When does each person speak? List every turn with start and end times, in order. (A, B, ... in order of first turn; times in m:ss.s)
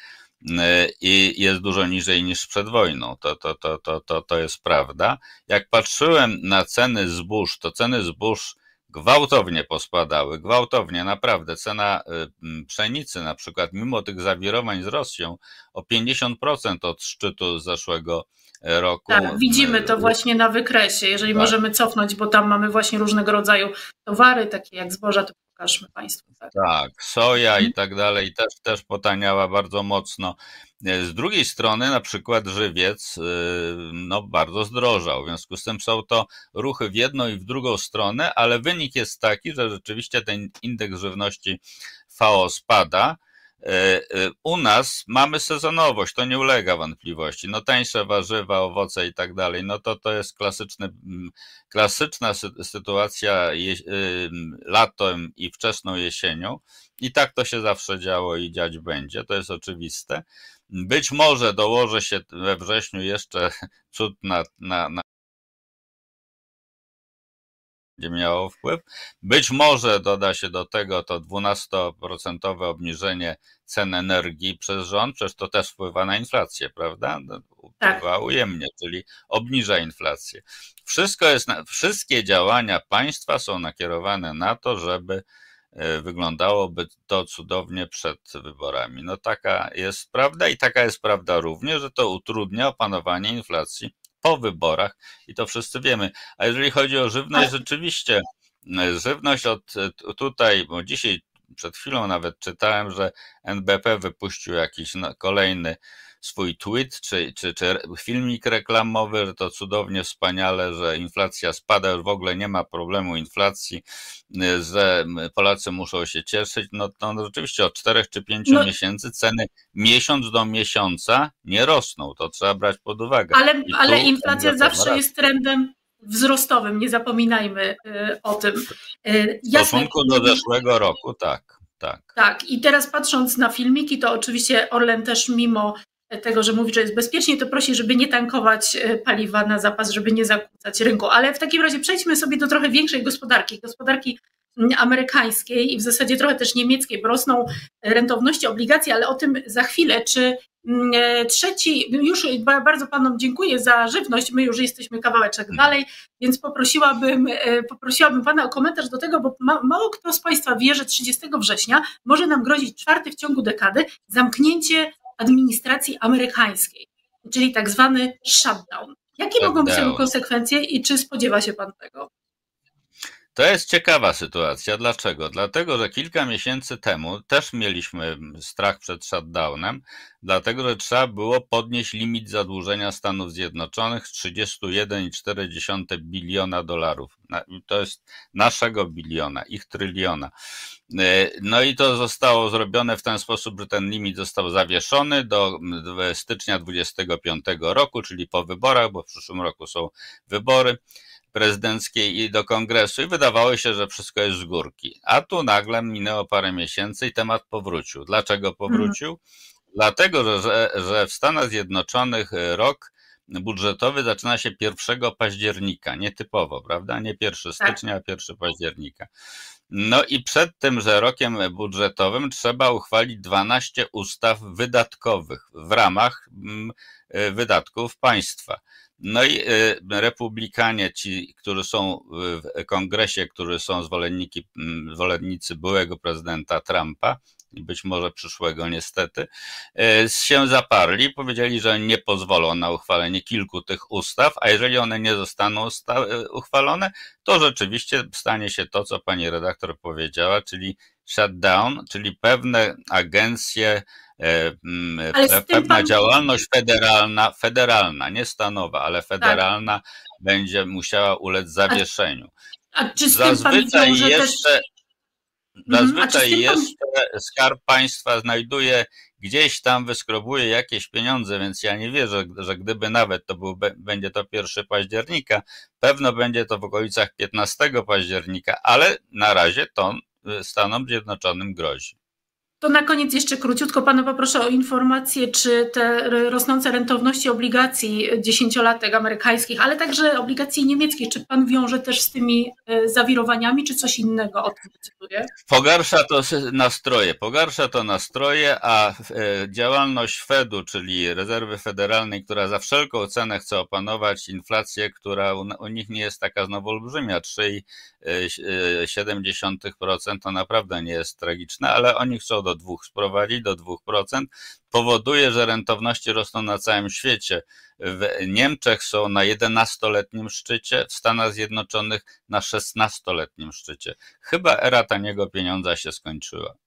0:00.4-0:20.1 A
0:19.1-0:26.5 B
0:26.5-0:41.6 A
0:42.1-1:05.0 A
1:08.0-1:25.2 A
1:25.8-2:05.0 A
2:03.3-2:10.4 B
2:09.5-2:12.2 A
2:12.2-2:52.1 B
2:49.4-2:50.1 A
2:53.4-3:10.3 A
3:10.9-3:20.8 A
3:21.3-3:29.2 A
3:28.7-3:29.0 B
3:29.7-3:39.1 A
3:39.7-4:22.3 A
4:15.1-4:16.0 B
4:22.8-4:24.4 B
4:23.1-4:24.6 A
4:25.6-4:42.0 A
4:25.7-4:26.7 B
4:42.6-4:55.3 B
4:55.5-5:26.6 A